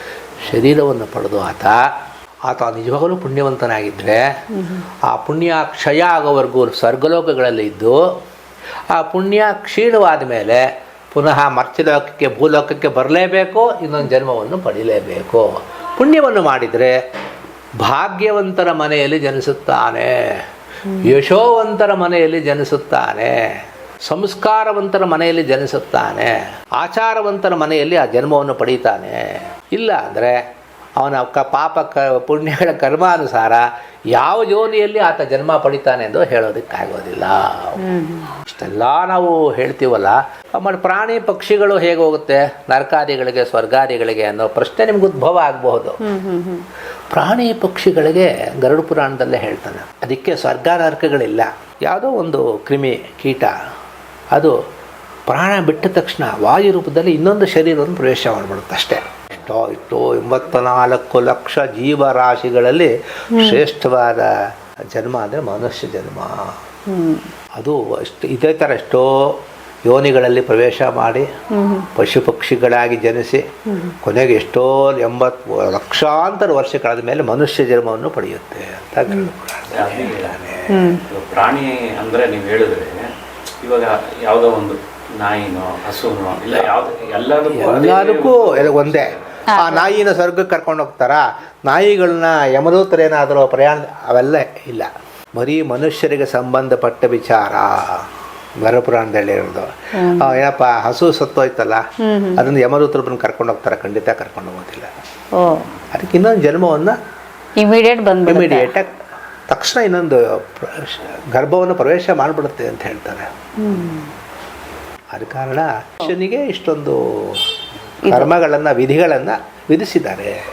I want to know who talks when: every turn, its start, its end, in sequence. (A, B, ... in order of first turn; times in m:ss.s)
0:00.4-0:01.8 A
0:02.5-0:04.2 A
0:04.5-0:04.8 B
0:05.0-0:08.1 A
0:08.9-0:17.0 A
0:17.8-0:20.4 A
0:21.0-0:30.4 A
0:31.0-0:37.8 A
0:37.8-0:38.3 B
0:38.4-0:46.0 A
0:46.0-0:46.7 B
0:47.1-0:53.5 A
0:55.3-1:04.3 A
1:03.3-1:03.6 B
1:04.9-1:06.5 A
1:06.9-1:07.3 B
1:07.6-1:11.3 A
1:11.5-1:11.9 B
1:11.9-1:21.0 A
1:19.7-1:20.4 C
1:20.7-1:21.0 B
1:21.0-1:29.4 C
1:27.5-1:38.1 A
1:29.5-1:29.9 B
1:38.6-1:44.9 A
1:40.0-1:40.4 B
1:42.0-1:42.4 B
1:45.3-1:45.7 B
1:45.9-1:47.0 A
1:47.6-1:48.7 B
1:48.2-1:48.9 A
1:49.5-1:53.3 A
1:53.6-1:54.1 B
1:55.1-1:57.4 A
1:58.0-1:58.3 B
1:58.0-2:00.3 A